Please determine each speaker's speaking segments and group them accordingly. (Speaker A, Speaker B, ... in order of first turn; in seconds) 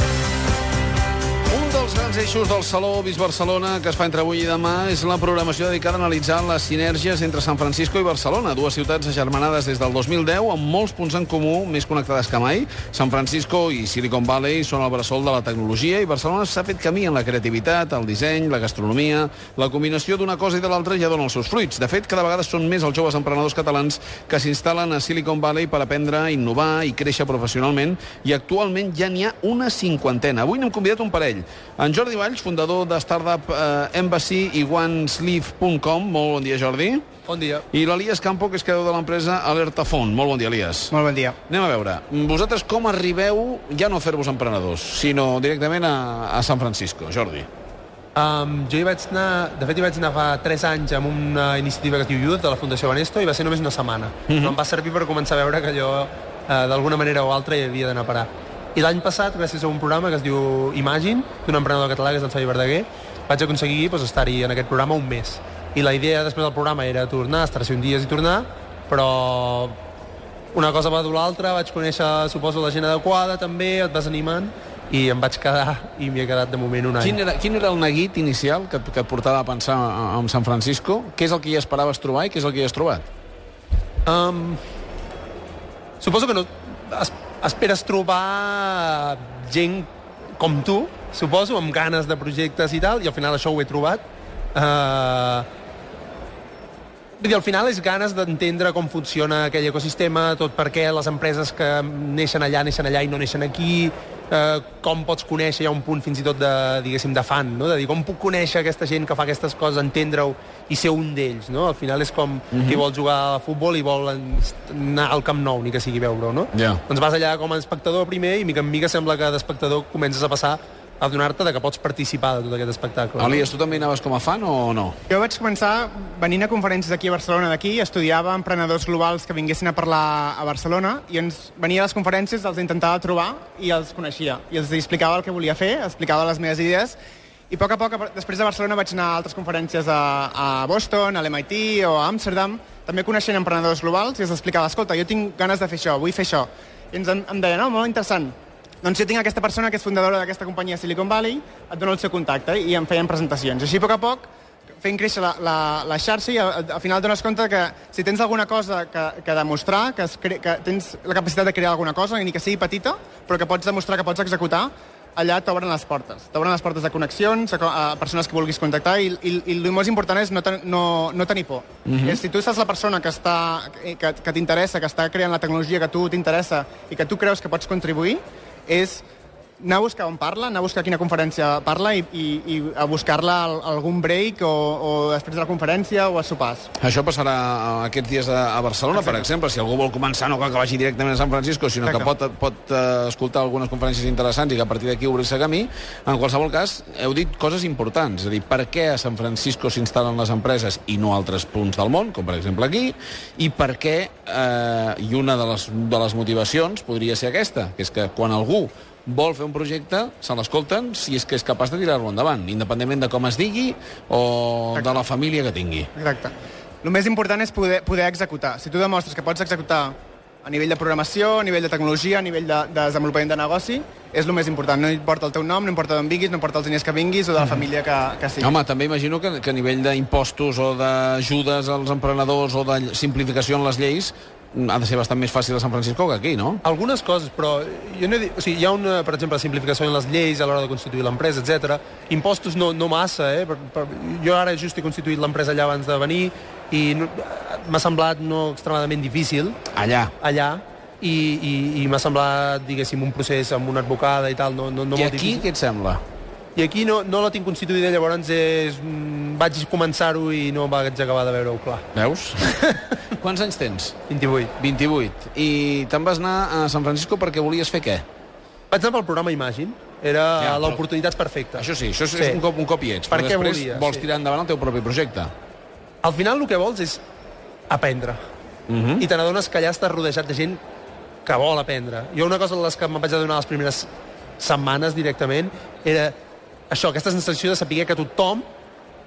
Speaker A: 1.5-37.0, 37.7-40.9, 41.5-47.5, 54.3-54.5, 77.0-83.0, 112.5-112.8, 116.5-116.8, 123.2-125.0, 171.8-172.2, 186.8-215.9, 228.4-236.6, 249.7-250.1, 254.9-256.0, 261.9-262.5, 263.1-263.9, 264.6-268.0, 270.4-270.8, 271.6-275.3, 278.7-279.0
Speaker B: 37.3-37.6, 48.1-69.8, 70.5-77.2, 84.0-84.6, 86.0-94.0, 94.5-95.5, 97.2-123.4, 236.6-249.6, 250.2-255.4, 256.6-261.9, 262.4-262.9, 264.1-264.5, 268.7-272.4, 273.1-274.0, 276.0-277.0, 277.7-278.2, 279.0-280.6, 281.2-286.1, 286.7-288.5
Speaker C: 40.9-41.4, 125.1-137.0, 137.5-154.3, 154.8-179.0, 179.6-186.7, 188.9-189.3, 191.8-192.1, 214.7-215.0, 215.9-228.5